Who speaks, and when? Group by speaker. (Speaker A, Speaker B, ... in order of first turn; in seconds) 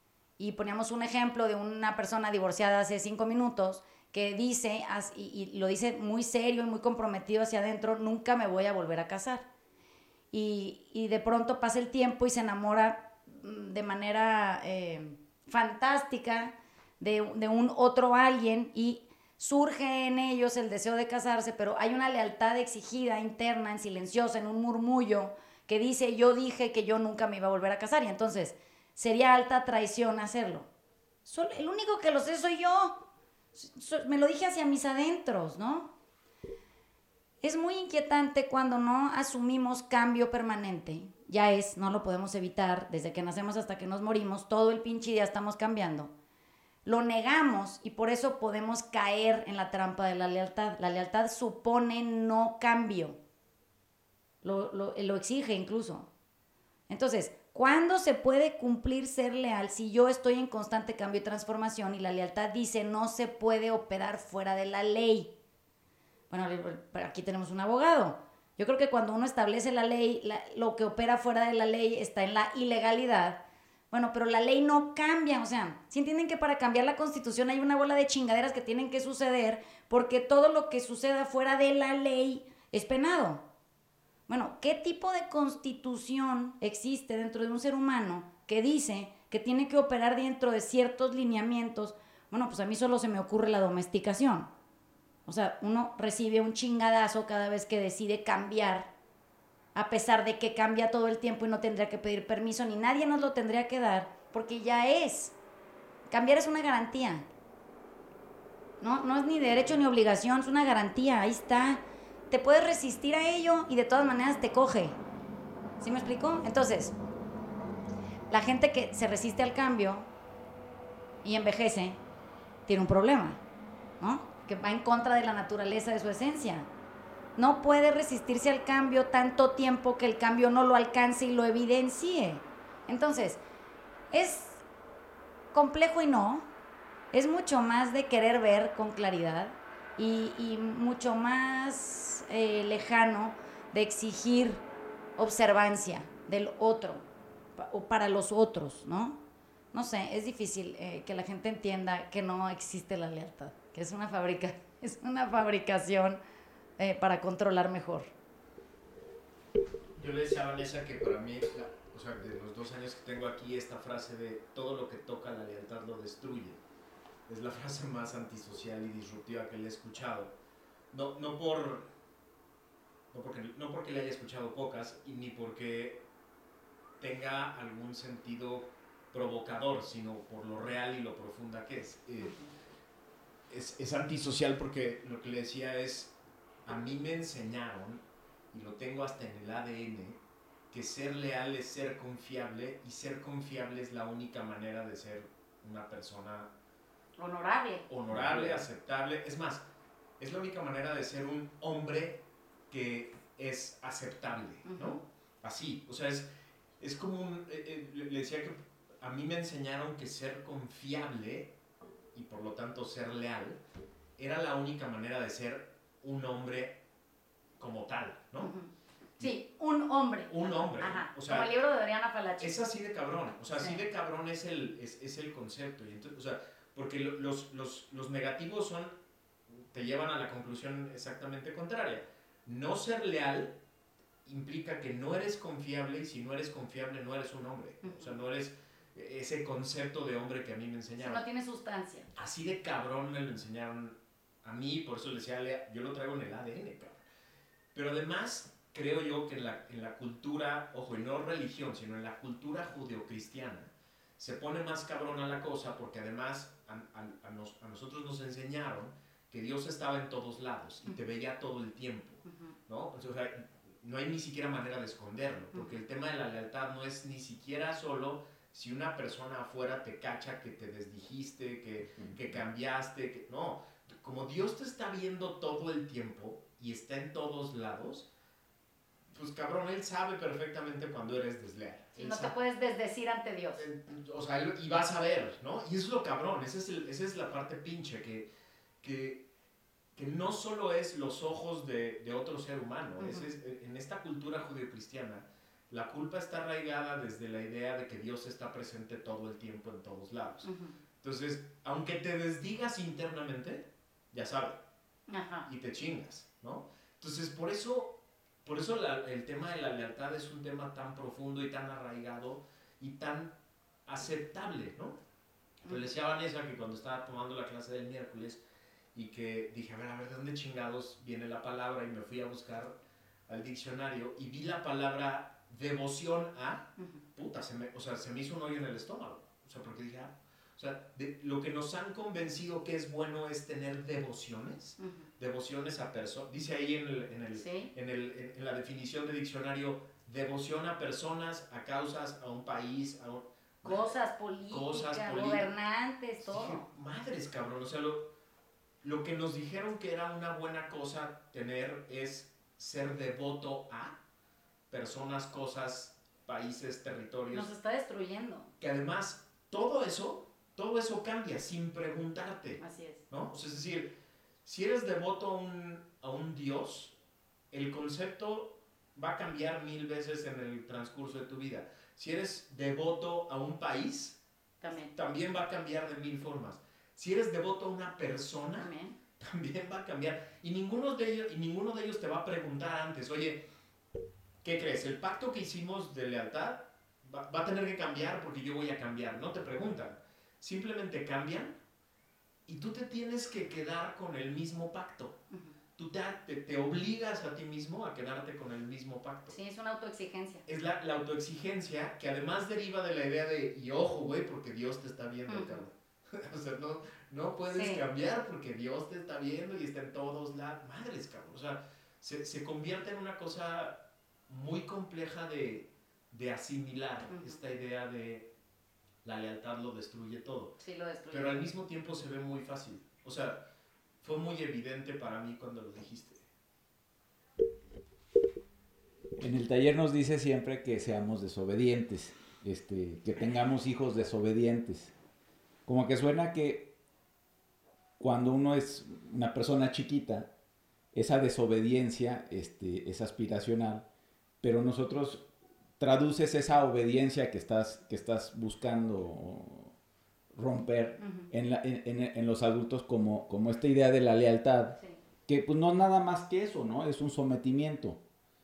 Speaker A: 0.4-9.4, 10.3-30.7, 31.2-33.0, 33.5-35.9, 37.4-46.1, 46.8-53.2, 54.4-56.1, 56.9-65.3, 66.3-83.4, 84.3-94.5, 95.2-98.9, 99.7-105.3, 106.1-107.2, 108.8-115.0, 115.8-116.9, 118.3-120.1, 121.2-122.0, 122.7-123.4, 124.0-126.7, 127.4-133.4, 134.1-134.6, 135.5-136.5, 137.1-144.6, 145.2-147.0, 147.6-149.2, 149.7-156.2, 156.8-158.1, 182.2-182.5, 197.2-197.8, 204.7-205.0, 218.4-218.7, 219.2-222.6, 241.0-242.1, 281.9-283.6, 293.0-293.3, 300.4-300.7, 305.1-305.5, 334.8-335.0, 337.4-337.7, 343.6-346.6, 357.3-358.5, 362.6-363.0, 374.6-374.9, 378.6-378.9, 399.3-400.4, 405.3-405.6, 407.5-407.8, 417.1-417.4, 420.6-421.4, 451.0-451.3
Speaker B: 159.9-166.6, 167.3-170.3, 170.9-171.8, 173.1-176.0, 177.0-182.3, 183.5-186.1, 186.7-190.2, 190.7-196.5, 197.9-199.6, 200.2-206.3, 206.8-211.5, 212.1-213.6, 214.2-216.8, 217.6-218.5, 220.3-221.5, 222.4-228.9, 229.7-233.6, 234.2-241.2, 242.1-247.0, 247.7-278.1, 279.1-282.3, 283.6-288.3, 288.8-289.2, 289.9-300.5, 301.0-304.6, 305.5-313.3, 313.9-315.0, 315.6-318.4, 318.9-322.7, 323.3-343.9, 344.5-345.5, 346.2-348.1, 348.8-353.9, 354.7-357.5, 358.6-363.9, 364.4-366.9, 367.5-383.4, 384.4-391.6, 392.5-395.2, 395.8-399.4, 400.5-418.3, 419.0-420.6, 421.1-423.4, 424.0-426.2
Speaker C: 198.1-198.6, 429.1-434.9, 435.6-436.7, 438.0-440.3, 440.9-443.9, 444.4-445.3, 445.8-449.7, 450.3-458.0